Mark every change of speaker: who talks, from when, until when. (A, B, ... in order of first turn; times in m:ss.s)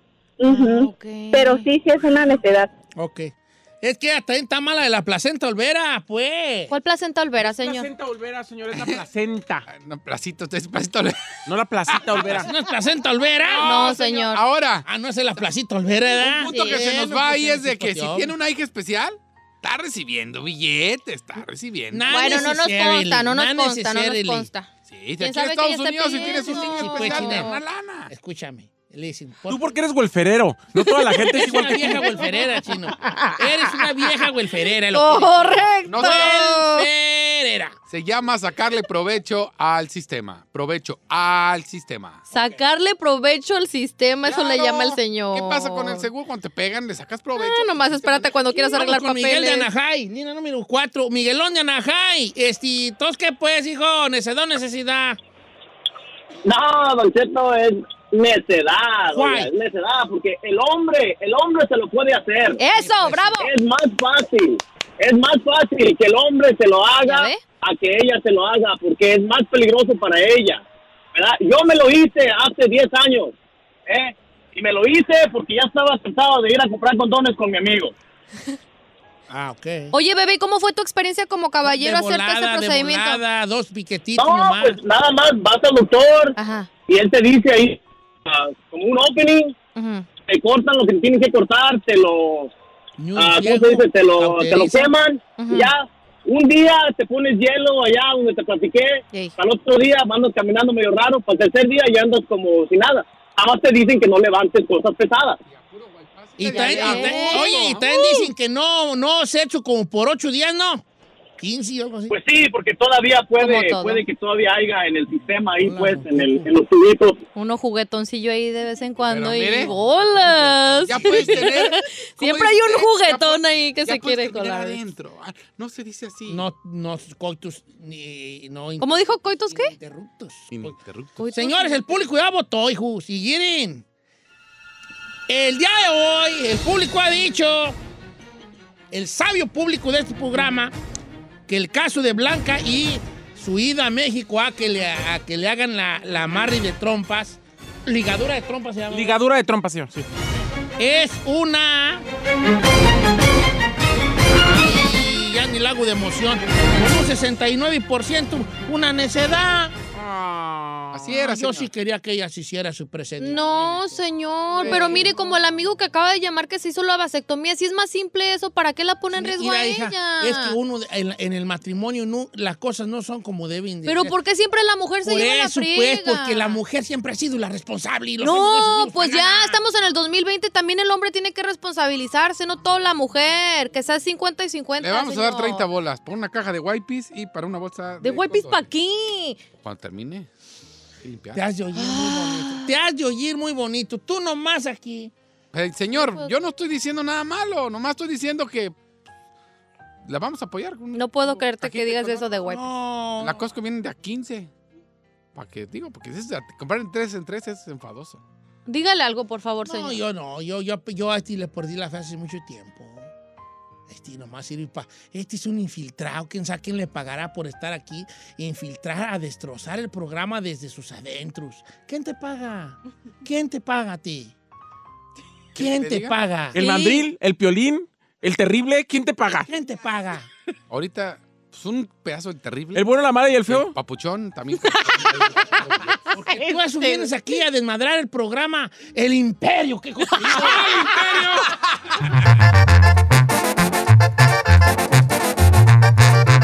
0:00.4-0:02.7 A
0:00.5-0:01.7 B
0:03.0-0:06.7 C
0:06.7-0:07.9 B
0:07.4-0:09.7 D
0:08.8-0:09.0 E
0:09.7-0:11.3 E
0:11.5-0:12.5 D
0:11.9-0:12.4 E
0:12.3-0:14.0 C
0:13.4-0:14.8 E
0:13.6-0:14.4 B
0:14.8-0:18.4 C
0:16.2-0:22.5 E
0:16.5-0:16.8 B
0:21.9-0:24.5 C
0:22.1-0:27.6 B
0:24.9-0:28.1 E
0:26.2-0:27.5 C
0:28.1-0:29.6 C
0:29.5-0:32.1 D
0:30.8-0:31.2 B
0:31.3-0:37.8 C
0:32.0-0:34.1 B
0:34.9-0:36.9 B
0:35.9-0:36.4 E
0:37.9-0:42.2 E
0:42.3-0:46.1 B
0:44.2-0:48.8 E
0:47.4-0:49.7 B
0:48.8-0:55.2 C
0:56.4-1:02.6 F
0:59.1-0:59.5 C
1:02.6-1:03.5 B
1:02.6-1:03.4 C
1:03.4-1:10.6 F
1:07.0-1:07.4 B
1:11.1-1:13.3 F
1:13.9-1:17.9 F
1:19.3-1:19.9 C
1:19.9-1:23.2 B
1:21.6-1:24.8 C
1:24.2-1:26.4 F
1:26.4-1:26.7 B
1:26.9-1:29.6 F
1:29.8-1:30.1 B
1:30.3-1:32.5 F
1:33.0-1:34.9 C
1:33.2-1:45.4 F
1:35.4-1:35.7 B
1:45.5-1:47.9 E
1:46.4-1:50.8 C
1:46.5-1:48.3 B
1:51.4-1:52.1 C
1:52.1-1:57.2 F
1:53.4-1:54.0 B
1:55.6-1:56.5 C
1:57.4-2:04.8 B
1:59.1-1:59.7 E
1:59.6-2:01.7 C
2:00.8-2:06.4 E
2:06.3-2:10.7 C
2:08.8-2:09.7 B
2:10.5-2:11.3 E
2:11.2-2:12.0 B
2:11.3-2:13.8 C
2:15.3-2:17.8 C
2:18.9-2:20.7 C
2:21.5-2:29.2 C
2:28.9-2:30.1 D
2:30.8-2:32.0 C
2:34.5-2:44.0 C
2:40.9-2:41.7 E
2:43.2-2:50.6 B
2:44.6-2:45.1 C
2:44.6-2:45.0 E
2:49.1-2:54.1 C
2:53.9-2:56.6 B
2:55.0-2:59.6 C
2:58.2-3:05.6 B
3:04.8-3:08.7 E
3:08.0-3:09.4 B
3:09.6-3:10.3 E
3:11.0-3:11.4 E
3:11.3-3:15.1 C
3:11.8-3:12.7 B
3:15.5-3:18.8 E
3:15.9-3:16.3 B
3:20.1-3:22.4 E
3:20.9-3:22.6 B
3:22.4-3:23.4 C
3:23.2-3:24.5 E
3:25.4-3:28.2 E
3:28.7-3:30.0 B
3:29.6-3:33.1 C
3:33.9-3:44.3 C
3:45.6-3:46.1 E
3:45.6-3:46.6 C
3:46.5-3:49.5 D
3:46.6-3:47.1 B
3:49.5-3:50.3 C
3:50.7-3:52.9 E
3:52.8-3:53.8 D
3:53.5-3:56.1 E
3:54.6-3:55.1 B
3:56.1-4:01.0 C
3:56.1-3:57.1 B
4:00.2-4:01.6 E